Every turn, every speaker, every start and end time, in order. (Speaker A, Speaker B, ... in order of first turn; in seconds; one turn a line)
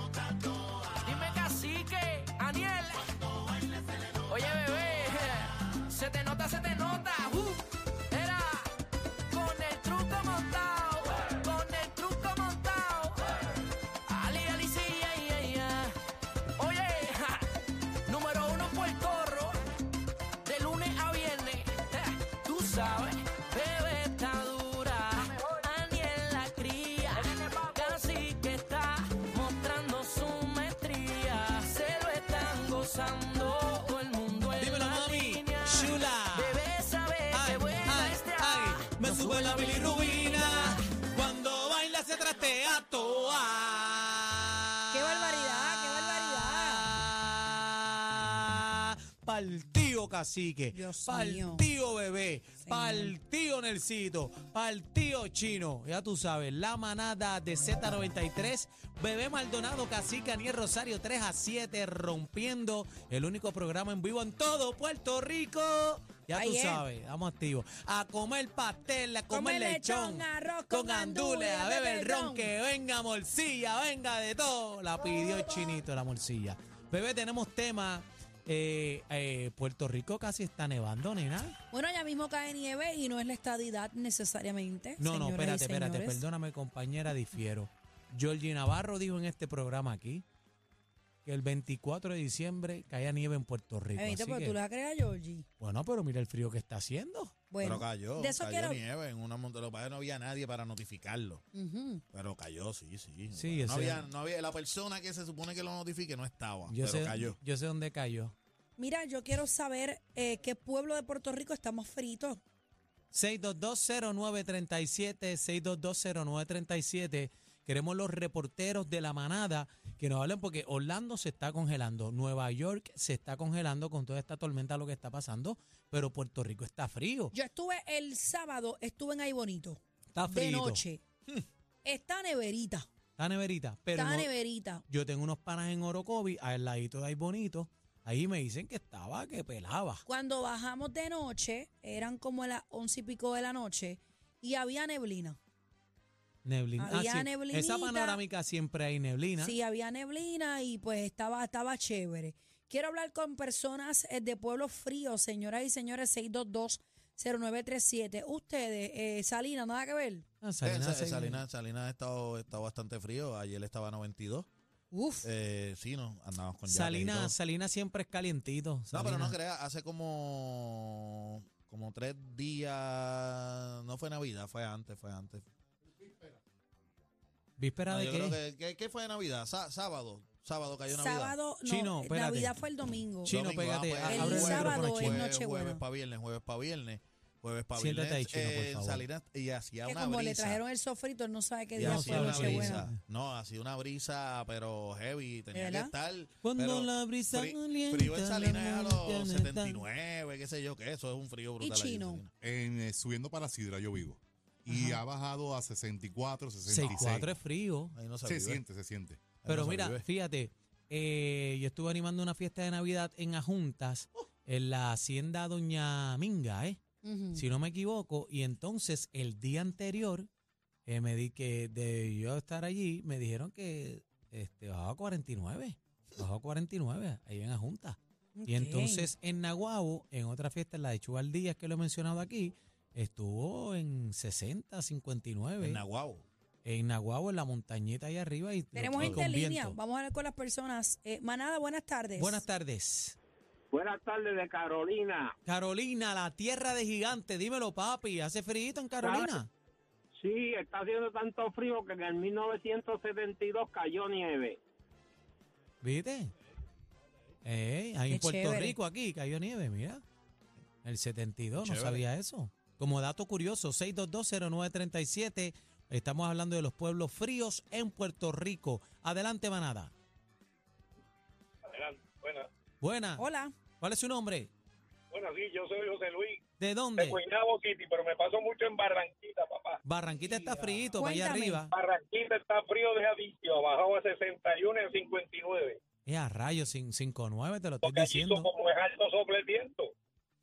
Speaker A: 0.6-3.2
Speaker A: 3.8-8.7
Speaker A: 9.3-13.2
Speaker A: 14.1-15.9
Speaker A: 16.6-17.5
Speaker A: 18.1-19.6
Speaker A: 20.4-40.8
Speaker B: 34.6-36.6
Speaker B: 37.3-81.5
Speaker C: 44.9-46.9
Speaker C: 50.7-51.7
Speaker C: 52.6-53.1
Speaker C: 66.3-66.8
Speaker C: 69.3-72.5
Speaker C: 81.7-86.2
Speaker B: 85.0-90.2
Speaker B: 91.2-94.5
Speaker C: 94.0-95.5
Speaker B: 95.6-97.4
Speaker C: 97.5-98.8
Speaker D: 97.6-101.4
Speaker C: 101.5-102.0
Speaker D: 102.1-107.4
Speaker B: 103.3-104.1
Speaker B: 106.7-108.3
Speaker C: 108.8-112.4
Speaker B: 113.1-127.3
Speaker C: 127.3-131.0
Speaker B: 130.1-130.8
Speaker C: 131.8-132.9
Speaker B: 133.2-134.3
Speaker C: 133.9-134.8
Speaker B: 134.9-140.0
Speaker C: 140.1-145.4
Speaker B: 146.4-149.6
Speaker C: 146.8-148.2
Speaker C: 149.4-160.3
Speaker B: 160.4-161.4
Speaker D: 160.6-164.5
Speaker C: 164.9-165.3
Speaker D: 165.2-167.3
Speaker B: 166.7-169.4
Speaker D: 168.9-175.4
Speaker B: 177.6-178.4
Speaker D: 177.9-181.4
Speaker C: 180.9-183.4
Speaker B: 181.6-182.6
Speaker B: 183.2-185.3
Speaker D: 183.3-190.6
Speaker C: 184.1-185.8
Speaker B: 187.8-189.1
Speaker C: 189.8-192.8
Speaker D: 191.8-202.3
Speaker B: 191.8-193.0
Speaker C: 195.5-195.9
Speaker B: 196.4-199.8
Speaker C: 201.6-202.2
Speaker E: 202.4-207.3
Speaker C: 204.7-205.0
Speaker B: 206.7-208.0
Speaker F: 206.8-207.1
Speaker D: 207.9-208.6
Speaker E: 208.2-209.4
Speaker D: 209.4-210.1
Speaker B: 209.4-216.8
Speaker C: 217.0-217.4
Speaker B: 217.3-220.3
Speaker B: 220.9-235.8
Speaker C: 228.4-229.1
Speaker D: 235.6-236.2
Speaker B: 236.6-239.8
Speaker C: 238.8-242.4
Speaker D: 239.0-239.2
Speaker B: 242.2-243.2
Speaker G: 243.7-245.3
Speaker B: 245.5-249.5
Speaker G: 249.0-249.3
Speaker G: 250.2-254.6
Speaker B: 255.8-256.3
Speaker B: 257.4-260.0
Speaker C: 258.1-258.7
Speaker B: 260.8-269.9
Speaker D: 261.6-262.0
Speaker F: 271.7-272.5
Speaker B: 272.8-273.2
Speaker C: 273.2-273.5
Speaker B: 273.8-274.5
Speaker F: 275.1-276.4
Speaker B: 276.6-277.2
Speaker F: 277.0-279.8
Speaker B: 279.8-281.7
Speaker C: 281.0-281.6
Speaker F: 281.7-285.8
Speaker B: 286.1-288.5
Speaker F: 287.8-289.9